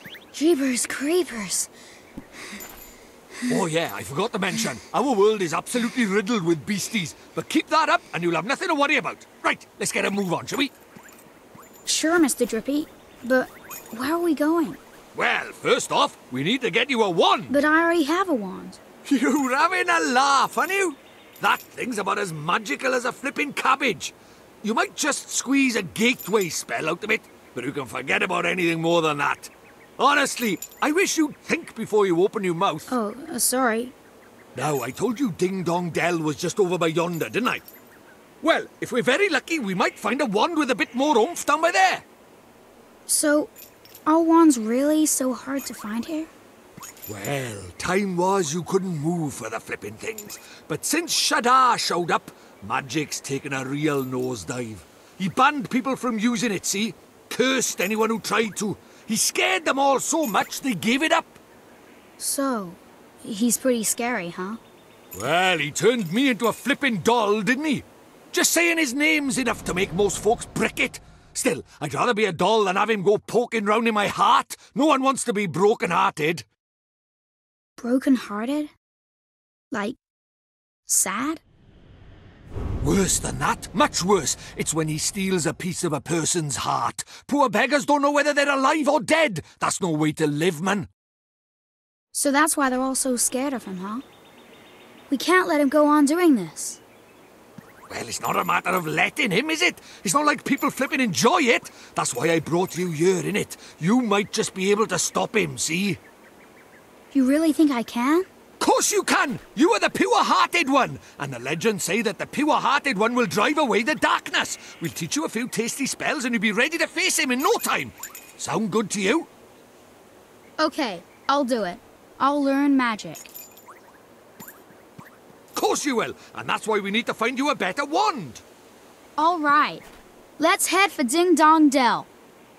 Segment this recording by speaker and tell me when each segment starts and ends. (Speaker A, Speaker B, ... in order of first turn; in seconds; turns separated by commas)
Speaker A: 0.3-1.7, Speaker B: 3.5-10.7, Speaker A: 11.8-14.8, Speaker B: 15.1-17.6, Speaker A: 17.5-18.8, Speaker B: 19.0-32.9, Speaker A: 32.9-33.9, Speaker B: 34.5-37.6, Speaker B: 38.4-42.0, Speaker A: 43.1-43.5, Speaker A: 44.0-46.3, Speaker B: 47.1-61.4, Speaker A: 62.2-64.6, Speaker B: 65.1-76.4, Speaker A: 77.8-78.7, Speaker A: 79.7-80.0, Speaker A: 80.9-81.4, Speaker B: 82.8-90.9, Speaker A: 92.1-94.0, Speaker A: 95.1-96.8, Speaker B: 97.9-106.0, Speaker A: 107.1-108.3, Speaker B: 108.6-119.3, Speaker A: 120.6-123.3, Speaker B: 125.5-128.4, Speaker A: 129.2-129.8, Speaker A: 130.4-132.1